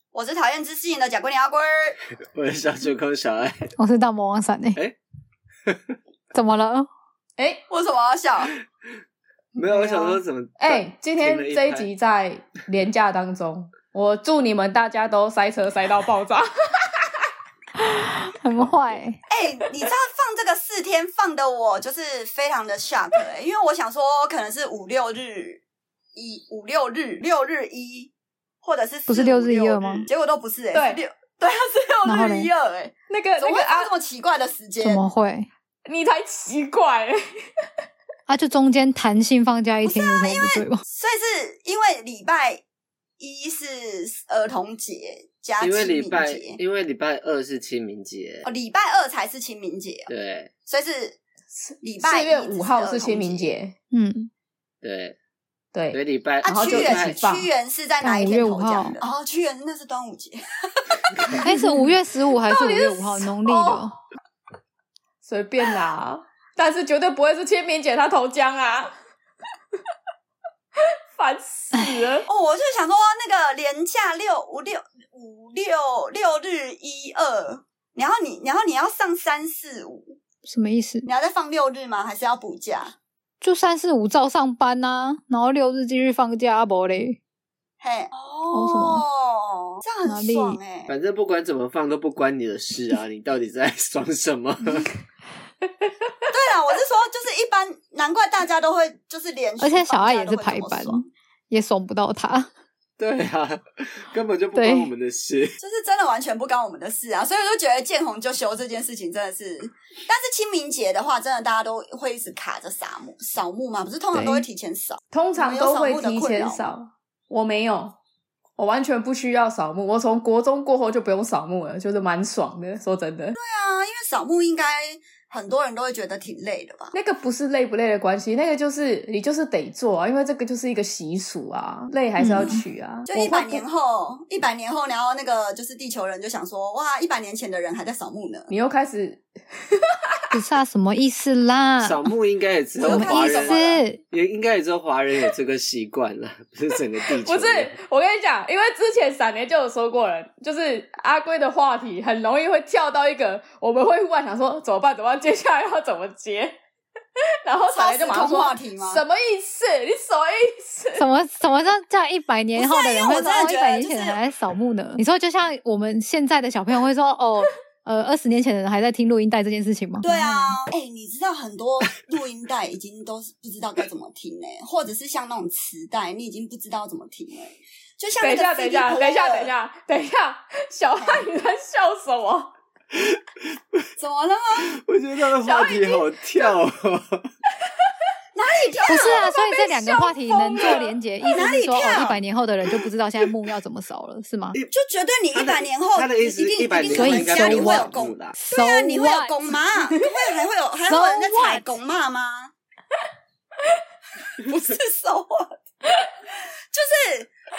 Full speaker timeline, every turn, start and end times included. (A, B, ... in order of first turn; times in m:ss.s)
0:00.1-0:02.0 A
0:02.3-0:03.7 B
0:03.8-0:04.8 C
0:05.6-0:06.0 B
0:06.3-0:06.9 C
0:07.7-0:08.6 A
0:09.5-0:11.9 B
0:09.6-0:17.3 D
0:18.0-0:19.2 C
0:18.6-0:19.0 B
0:19.3-0:25.6 A
0:26.2-0:28.1 A
0:28.6-0:35.0 A
0:29.1-0:30.0 C
0:30.7-0:31.0 D
0:32.0-0:32.5 C
0:33.1-0:33.9 D
0:34.8-0:35.5 C
0:35.8-0:37.2 D
0:38.3-0:40.8 C
0:39.8-0:42.6 A
0:43.2-0:46.6 A
0:45.6-0:48.4 B
0:48.4-0:50.1 A
0:50.1-0:50.5 B
0:50.7-0:51.2 A
0:51.6-0:53.7 D
0:51.8-0:53.5 A
0:53.9-0:54.3 C
0:54.8-0:55.2 B
0:55.7-0:57.5 D
0:55.9-0:57.1 B
0:56.4-1:01.6 A
0:58.0-0:59.0 C
1:01.3-1:03.9 C
1:02.3-1:03.8 A
1:05.2-1:08.9 D
1:11.1-1:12.2 D
1:12.3-1:20.2 A
1:20.4-1:21.0 C
1:21.0-1:23.0 A
1:23.4-1:27.2 C
1:27.8-1:30.9 A
1:28.5-1:29.0 C
1:30.0-1:30.6 C
1:30.9-1:34.9 B
1:36.3-1:41.0 A
1:39.6-1:42.5 C
1:43.0-1:45.6 B
1:44.6-1:44.9 C
1:45.6-1:56.7 A
1:54.1-1:54.4 D
1:55.1-1:58.0 D
1:58.6-2:03.4 D
2:03.4-2:06.9 A
2:06.9-2:13.6 D
2:12.2-2:12.6 C
2:12.3-2:18.5 A
2:18.5-2:20.4 D
2:20.3-2:22.1 C
2:21.8-2:27.7 B
2:22.8-2:23.8 A
2:22.8-2:24.0 C
2:27.1-2:36.6 D
2:37.4-2:41.0 D
2:37.7-2:39.0 A
2:41.0-2:50.6 C
2:42.5-2:44.2 A
2:50.0-2:59.5 A
2:58.2-3:02.5 D
3:04.0-3:04.7 A
3:04.7-3:07.3 B
3:05.4-3:06.1 D
3:08.3-3:12.2 A
3:08.9-3:14.6 C
3:10.6-3:10.9 D
3:14.7-3:22.5 A
3:15.3-3:18.3 B
3:16.9-3:19.3 C
3:20.9-3:21.7 C
3:24.3-3:25.6 A
3:26.7-3:27.3 A